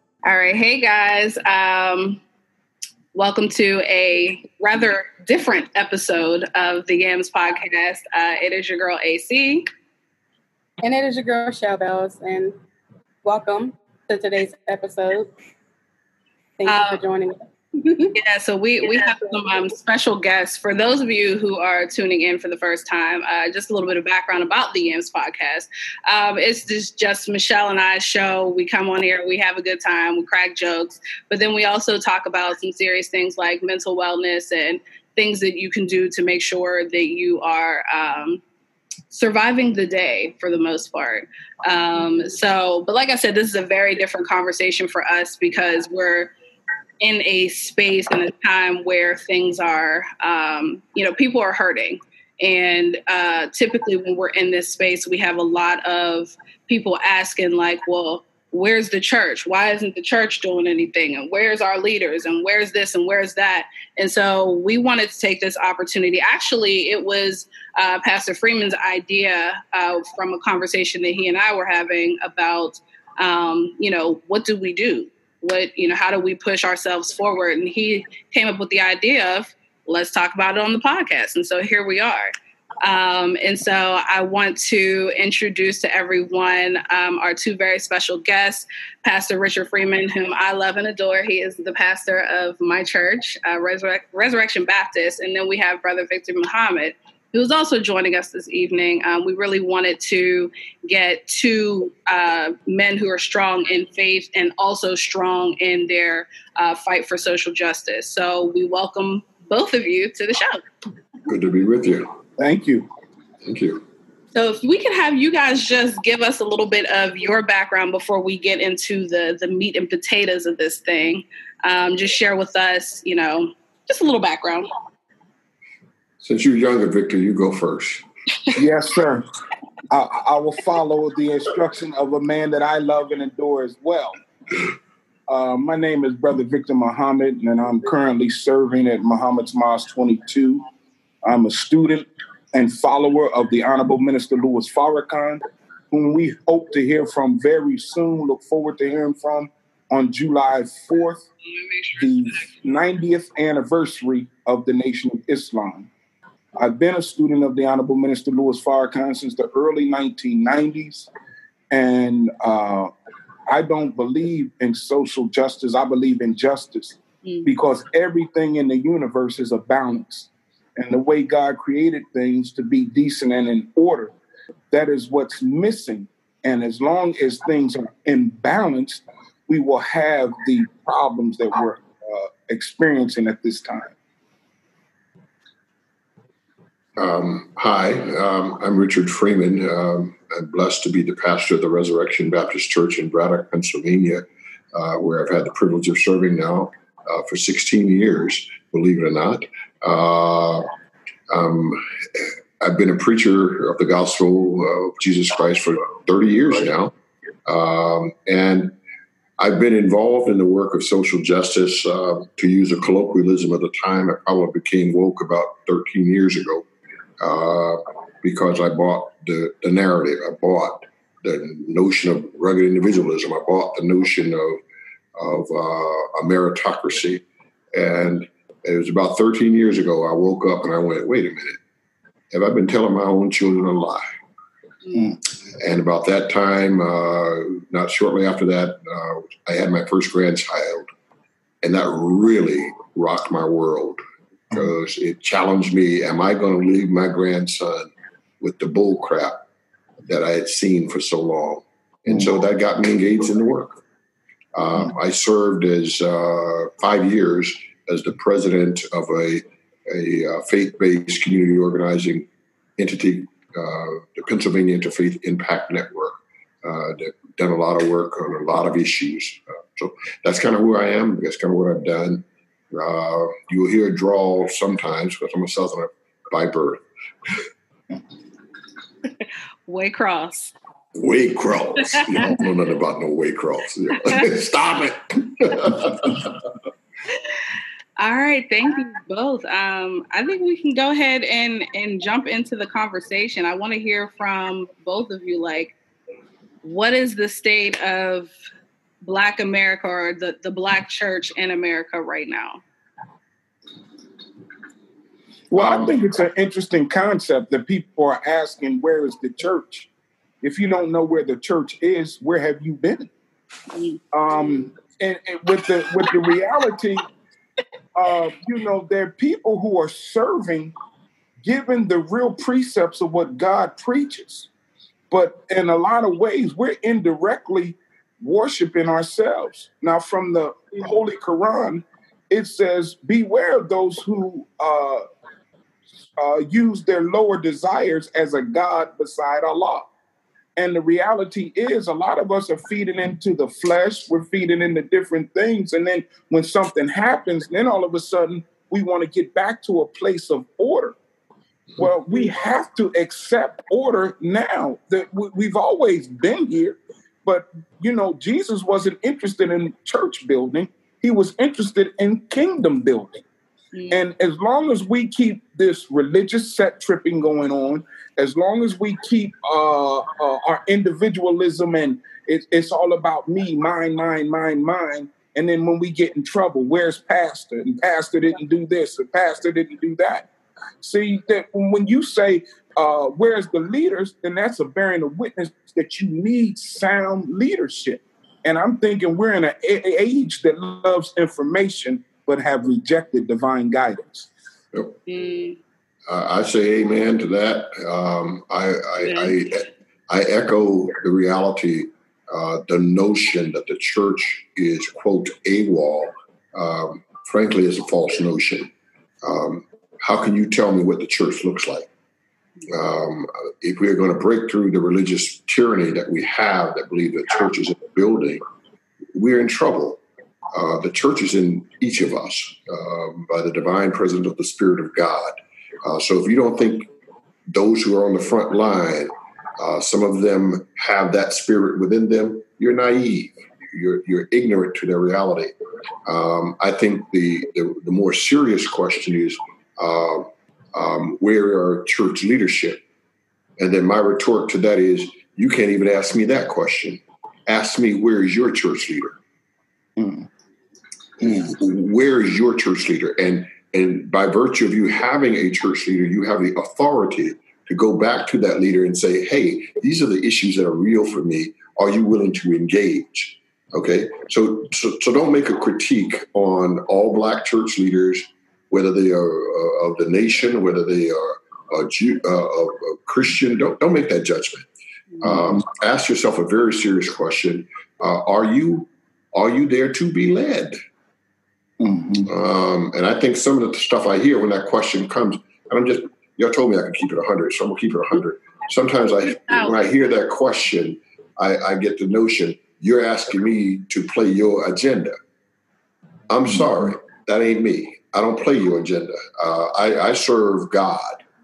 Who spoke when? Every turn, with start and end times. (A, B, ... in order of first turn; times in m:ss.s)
0:00.2-0:02.2 A
0:03.1-0:09.7 A
0:10.8-0:12.5 B
0:13.2-0:15.3 B
0:16.6-0:18.1 B
0:16.6-0:17.0 A
0:18.1-0:38.4 A
0:18.8-0:19.2 B
0:39.1-0:46.3 A
0:47.0-1:22.3 A
1:22.8-1:50.6 A
1:51.3-1:52.1 C
1:52.4-1:52.9 D
1:53.4-1:53.8 C
1:54.3-2:04.7 A
2:06.2-2:08.0 C
2:08.5-2:09.2 D
2:09.9-2:14.1 D
2:15.3-2:20.6 D
2:21.2-2:31.3 D
2:31.6-2:32.0 A
2:32.0-2:35.9 D
2:36.6-2:41.1 D
2:41.7-2:42.9 D
2:43.5-2:54.1 D
2:54.7-3:03.9 D
3:07.0-3:20.7 C
3:21.3-3:26.9 C
3:27.5-3:28.7 C
3:29.4-3:36.6 C
3:37.2-3:44.6 C
3:45.2-3:51.6 C
3:52.3-3:54.0 C
3:55.6-4:00.9 C
4:01.6-4:04.0 C
4:04.5-4:09.4 C
4:10.1-4:13.8 C
4:14.5-4:36.8 C
4:39.6-4:40.5 A
4:40.9-4:46.5 C
4:48.0-4:55.7 A
4:56.6-4:58.3 A
4:59.0-5:02.6 A
5:05.5-5:09.9 D
5:05.5-5:05.9 C
5:10.4-5:13.1 D
5:13.7-5:14.0 A
5:14.1-5:17.0 D
5:17.9-5:20.7 D
5:21.4-5:24.5 D
5:25.1-5:35.0 D
5:36.2-5:39.9 D
5:40.6-5:51.0 D
5:51.8-6:03.2 D
6:03.7-6:04.0 A
6:03.9-6:20.3 D
6:20.8-6:34.3 D
6:34.7-6:35.0 C
6:35.1-6:35.6 A
6:36.1-6:48.7 C
6:39.0-6:39.3 A
6:49.2-6:51.9 C
6:52.7-6:58.4 C
6:59.1-7:00.0 C
7:00.5-7:06.9 C
7:07.5-7:15.5 C
7:16.0-7:22.8 C
7:23.6-7:29.2 C
7:30.0-7:30.3 D
7:31.2-7:54.7 C
7:55.2-8:00.8 C
8:01.8-8:02.3 D
8:02.2-8:15.2 C
8:09.2-8:09.8 A
8:16.3-8:21.2 C